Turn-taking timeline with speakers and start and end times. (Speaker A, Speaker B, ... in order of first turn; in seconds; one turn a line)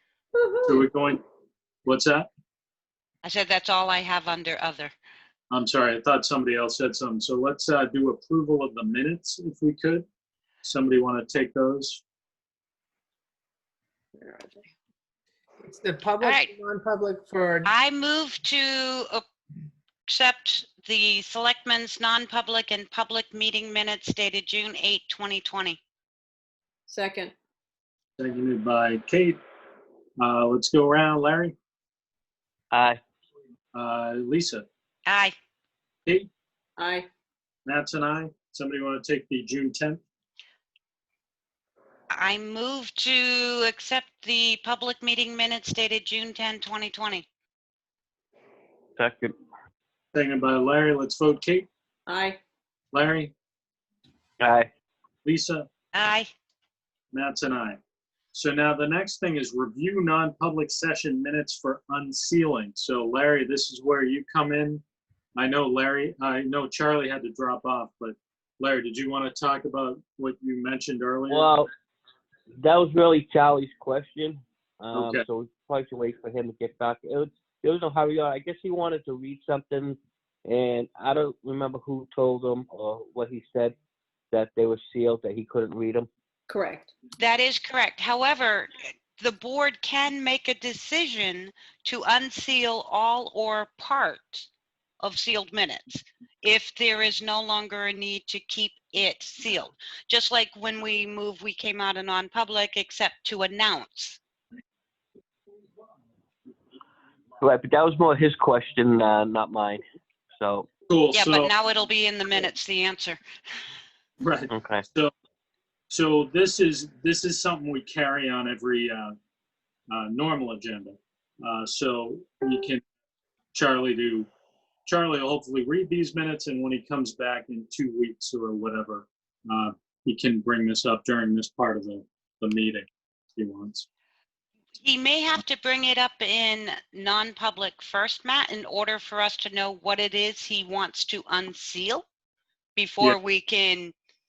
Speaker A: 0.3-0.8
Speaker B: 0.7-1.2
Speaker B: 1.9-2.3
Speaker C: 3.2-4.9
Speaker B: 5.5-10.1
Speaker B: 10.6-12.0
Speaker A: 14.2-14.7
Speaker D: 15.6-17.7
Speaker C: 16.2-16.5
Speaker C: 17.6-19.2
Speaker C: 20.1-25.8
Speaker A: 26.9-27.3
Speaker B: 28.2-29.4
Speaker B: 30.2-31.6
Speaker E: 32.7-33.0
Speaker B: 33.7-34.7
Speaker C: 35.1-35.4
Speaker A: 36.8-37.1
Speaker B: 37.7-40.0
Speaker C: 42.1-47.3
Speaker E: 49.0-49.4
Speaker B: 50.1-51.7
Speaker A: 52.1-52.4
Speaker B: 52.9-53.3
Speaker E: 54.4-54.7
Speaker B: 55.2-55.7
Speaker C: 55.9-56.3
Speaker B: 57.1-57.8
Speaker B: 58.3-64.8
Speaker B: 65.4-71.5
Speaker E: 71.3-71.7
Speaker E: 72.6-83.8
Speaker B: 74.9-75.2
Speaker E: 84.3-86.1
Speaker A: 86.5-86.9
Speaker C: 87.2-94.5
Speaker C: 95.0-104.2
Speaker E: 107.4-109.8
Speaker E: 110.4-110.7
Speaker B: 110.9-111.5
Speaker C: 111.1-113.2
Speaker B: 114.2-115.1
Speaker E: 114.5-114.9
Speaker B: 115.9-119.2
Speaker B: 119.9-122.8
Speaker B: 123.5-124.3
Speaker B: 124.9-133.9
Speaker C: 134.8-142.0
Speaker C: 142.8-143.9